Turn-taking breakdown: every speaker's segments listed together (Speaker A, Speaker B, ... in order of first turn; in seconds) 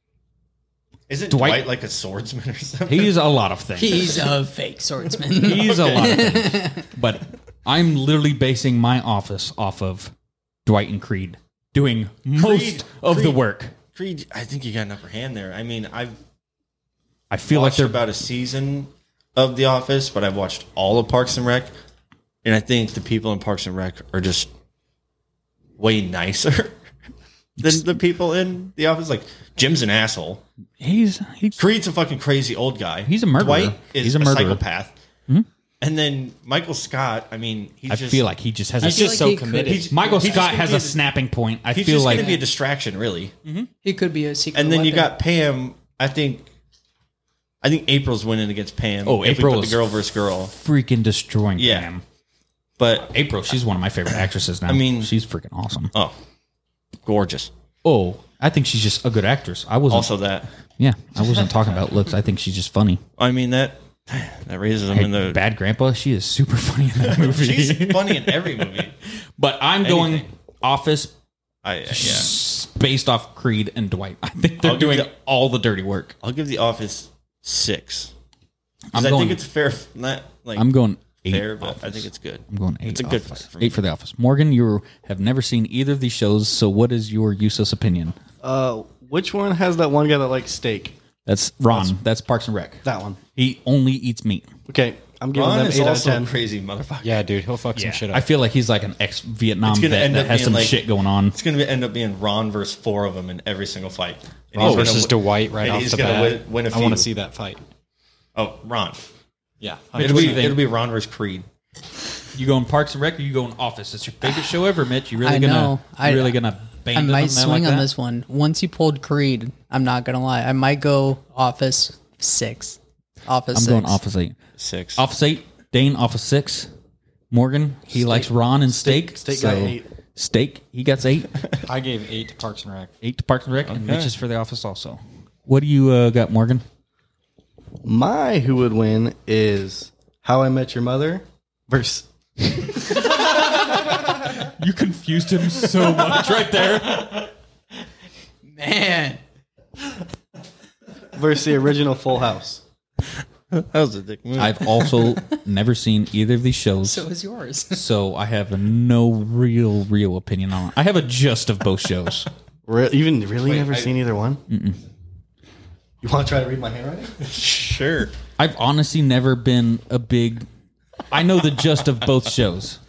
Speaker A: 1.1-3.1, 5.5-6.2, 12.3-13.4, 13.9-16.2, 17.5-21.7, 22.4-24.5, 25.8-26.8, 27.6-30.4, 31.6-34.9, 35.8-38.2, 39.6-41.0, 41.7-43.3, 44.5-46.5, 47.6-50.5, 51.6-51.9, 52.8-53.1, 54.7-55.1, 57.0-57.5, 59.9-60.5, 63.2-65.4, 67.0-68.9, 69.8-70.3, 71.6-72.3, 74.6-75.1, 76.2-78.1, 78.9-80.7, 81.2-83.8, 95.3-97.2, 99.6-107.1, 108.3-109.0, 110.0-111.4, 124.6-125.0, 133.6-134.1, 153.5-155.1, 163.4-163.9, 167.2-168.1
Speaker B: 1.3-1.7, 2.9-4.2, 5.4-10.1, 10.6-13.7, 17.3-18.0, 27.6-27.9, 30.8-31.6, 33.1-34.6, 37.9-39.4, 39.9-42.3, 49.0-49.9, 50.5-52.0, 53.0-55.9, 57.8-60.1, 60.8-63.0, 64.9-71.1, 71.9-76.1, 78.9-79.4, 80.5-88.1, 91.2-92.8, 93.3-94.5, 97.7-101.4, 104.6-105.1, 109.9-110.6, 112.3-117.9, 123.5-124.4, 125.0-126.7, 127.3-131.4, 133.0-136.6, 142.9-147.3, 154.4-157.0, 157.7-162.3, 164.5-164.8, 168.4-170.4, 171.1-172.8
Speaker C: 3.8-6.9, 38.8-40.0, 42.1-42.4, 43.8-45.1, 115.2-116.4, 116.9-124.0, 148.6-149.2, 156.8-157.8
Speaker D: 38.8-40.3, 97.0-98.2, 104.6-107.6, 109.6-110.5, 131.6-132.9
Speaker E: 88.4-90.9, 92.8-93.2, 94.7-96.3, 127.9-129.8, 137.8-143.0, 151.1-152.6, 162.7-164.4, 166.0-167.2